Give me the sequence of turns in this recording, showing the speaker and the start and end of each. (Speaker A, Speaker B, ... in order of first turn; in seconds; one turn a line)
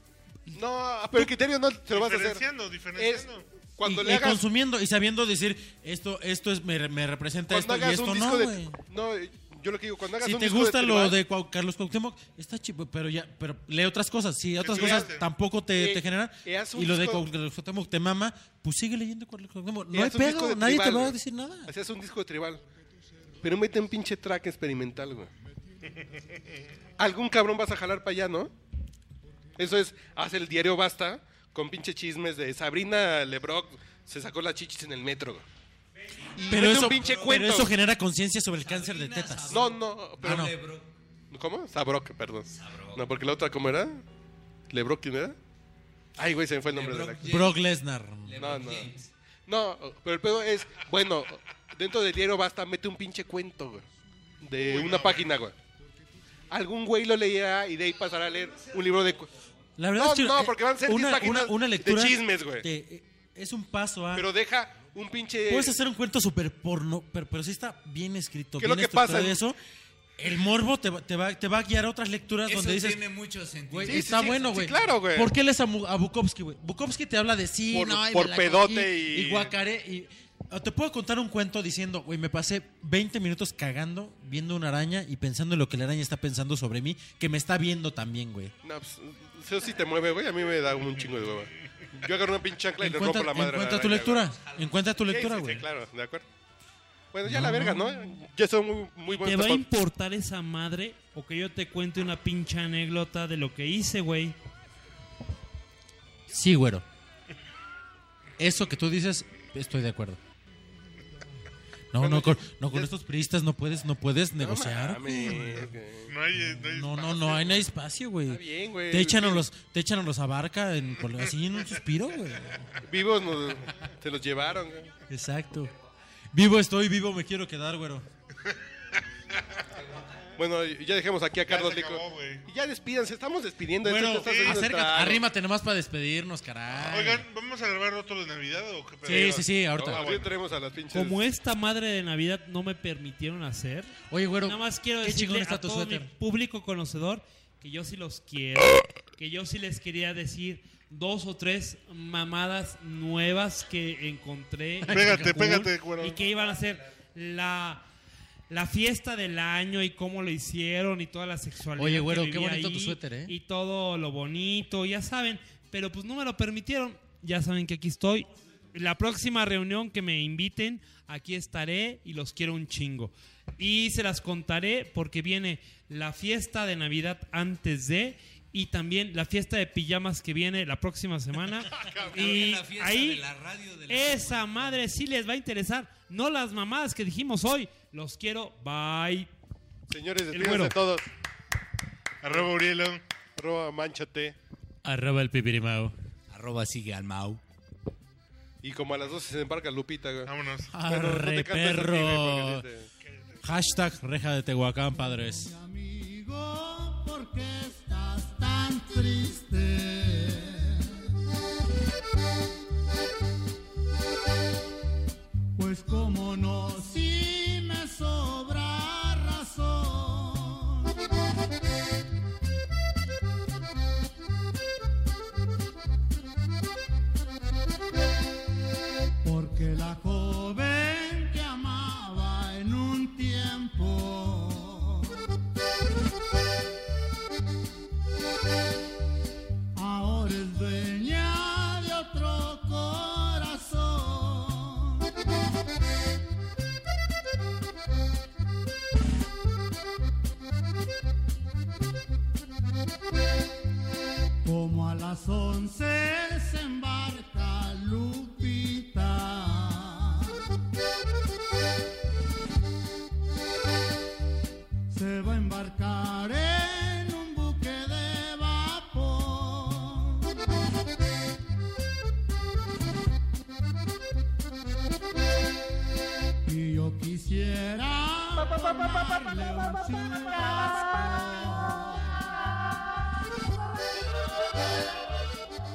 Speaker A: 0.5-2.5
Speaker B: 1.9-3.5
Speaker A: 3.0-3.3
Speaker A: 3.8-4.4
Speaker C: 3.8-8.8
Speaker A: 7.5-11.2
Speaker C: 10.2-21.7
Speaker B: 14.6-15.3
Speaker A: 14.8-15.1
Speaker A: 15.8-17.2
Speaker A: 19.9-22.6
Speaker A: 23.4-25.3
Speaker A: 27.0-28.5
Speaker A: 29.6-35.5
Speaker D: 36.2-37.5
Speaker A: 36.4-37.7
Speaker C: 36.5-40.5
Speaker D: 38.6-40.9
Speaker A: 39.5-40.5
Speaker A: 41.3-44.0
Speaker D: 42.5-43.0
Speaker A: 44.7-45.4
Speaker A: 46.2-47.3
Speaker D: 46.7-47.6
Speaker C: 47.2-48.5
Speaker D: 48.3-49.1
Speaker A: 48.4-53.9
Speaker A: 54.4-55.5
Speaker B: 54.6-55.4
Speaker A: 56.5-59.3
Speaker D: 58.4-58.9
Speaker C: 59.8-64.3
Speaker A: 60.0-62.6
Speaker A: 64.2-65.8
Speaker C: 65.5-69.6
Speaker A: 68.6-69.4
Speaker C: 70.2-73.0
Speaker D: 72.5-74.5
Speaker C: 73.7-88.5
Speaker A: 73.9-75.3
Speaker A: 77.7-79.5
Speaker A: 88.6-94.3
Speaker C: 92.8-95.7
Speaker D: 94.3-95.0
Speaker A: 95.1-96.2
Speaker A: 97.1-99.7
Speaker C: 97.2-97.9
Speaker E: 99.1-104.4
Speaker C: 106.3-106.8
Speaker C: 108.4-110.2
Speaker C: 111.9-115.6
Speaker A: 112.0-112.9
Speaker A: 114.4-116.1
Speaker B: 115.2-115.5
Speaker B: 116.1-117.7
Speaker C: 116.4-122.7
Speaker A: 118.3-119.4
Speaker A: 122.8-124.9
Speaker C: 125.1-125.7
Speaker C: 126.3-128.1
Speaker A: 130.4-135.2
Speaker B: 131.4-132.5
Speaker C: 133.8-137.2
Speaker B: 134.1-134.7
Speaker B: 136.9-140.4
Speaker C: 139.0-140.0
Speaker A: 139.8-141.2
Speaker E: 140.9-155.2
Speaker C: 144.1-146.1
Speaker C: 154.8-155.7
Speaker B: 154.9-156.2
Speaker E: 156.0-157.8
Speaker E: 158.5-183.3
Speaker C: 161.8-163.3
Speaker B: 181.8-182.2
Speaker D: 181.8-184.8
Speaker E: 183.9-189.3
Speaker A: 189.9-191.1
Speaker E: 190.3-190.8
Speaker B: 192.2-193.0
Speaker A: 193.4-194.4
Speaker C: 194.8-195.9
Speaker D: 196.3-197.4
Speaker A: 198.6-202.9
Speaker B: 200.3-200.7
Speaker C: 200.7-202.7
Speaker B: 203.1-203.4
Speaker C: 203.4-205.5
Speaker F: 205.1-211.1
Speaker F: 215.6-221.0
Speaker F: 229.2-235.3
Speaker F: 239.8-245.1
Speaker F: 254.4-260.6
Speaker F: 264.9-270.4
Speaker F: 276.5-282.5